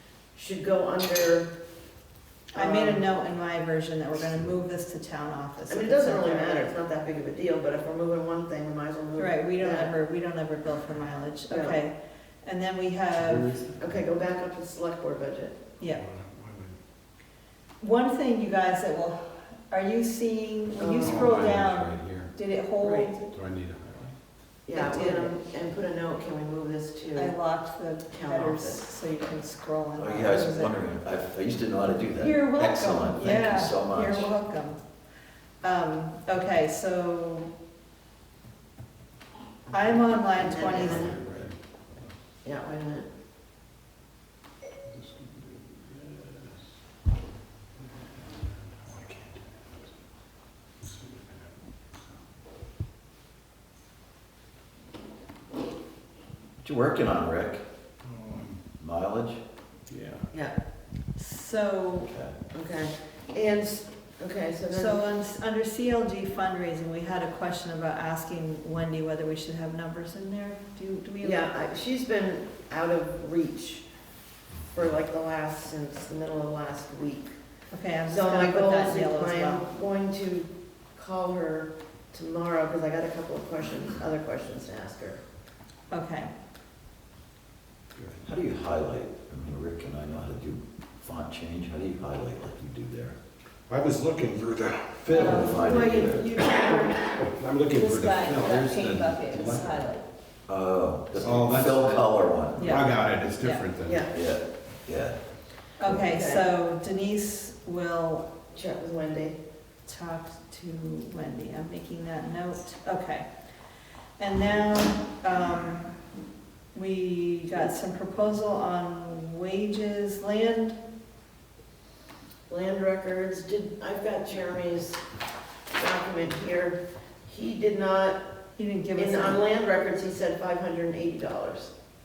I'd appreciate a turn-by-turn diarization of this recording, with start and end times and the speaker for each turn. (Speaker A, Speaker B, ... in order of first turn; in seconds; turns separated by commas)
Speaker A: 0.3-1.5, Speaker A: 2.5-3.0, Speaker B: 2.5-6.7, Speaker A: 5.7-9.9, Speaker B: 9.2-13.6, Speaker A: 11.5-11.8, Speaker C: 13.2-14.0, Speaker A: 13.8-15.6, Speaker C: 15.8-16.8, Speaker B: 17.8-23.3, Speaker A: 20.8-21.6, Speaker C: 21.0-22.3, Speaker A: 22.8-23.1, Speaker C: 23.3-24.2, Speaker A: 24.7-27.4, Speaker B: 24.7-25.3, Speaker B: 27.1-30.7, Speaker A: 28.1-28.9, Speaker D: 30.0-34.3, Speaker B: 32.2-34.8, Speaker B: 35.6-37.5, Speaker B: 39.7-41.2, Speaker A: 40.4-41.5, Speaker C: 40.6-42.1, Speaker A: 42.4-43.1, Speaker C: 44.9-46.7, Speaker C: 47.8-49.9, Speaker C: 50.8-51.5, Speaker D: 56.6-57.6, Speaker C: 58.0-58.6, Speaker D: 58.8-59.4, Speaker C: 59.9-60.3, Speaker B: 61.2-62.1, Speaker D: 62.1-62.4, Speaker A: 62.5-65.1, Speaker B: 64.7-71.5, Speaker A: 71.2-73.9, Speaker A: 74.7-77.3, Speaker B: 77.7-79.7, Speaker A: 78.1-85.2, Speaker B: 85.9-86.3, Speaker C: 88.0-88.2, Speaker D: 88.2-93.2, Speaker C: 93.7-95.8, Speaker B: 95.1-95.7, Speaker D: 95.1-96.3, Speaker A: 95.2-97.2, Speaker C: 96.4-99.9, Speaker B: 97.7-100.0, Speaker D: 100.5-102.8, Speaker C: 101.2-104.1, Speaker B: 102.6-103.7, Speaker A: 103.8-104.1, Speaker D: 104.1-105.2, Speaker B: 105.8-108.3, Speaker A: 105.9-106.4, Speaker A: 108.5-109.4, Speaker B: 109.9-113.3, Speaker B: 114.2-116.0, Speaker B: 116.7-120.8, Speaker A: 122.5-125.0, Speaker A: 125.7-128.2, Speaker B: 128.6-129.4, Speaker A: 129.0-131.7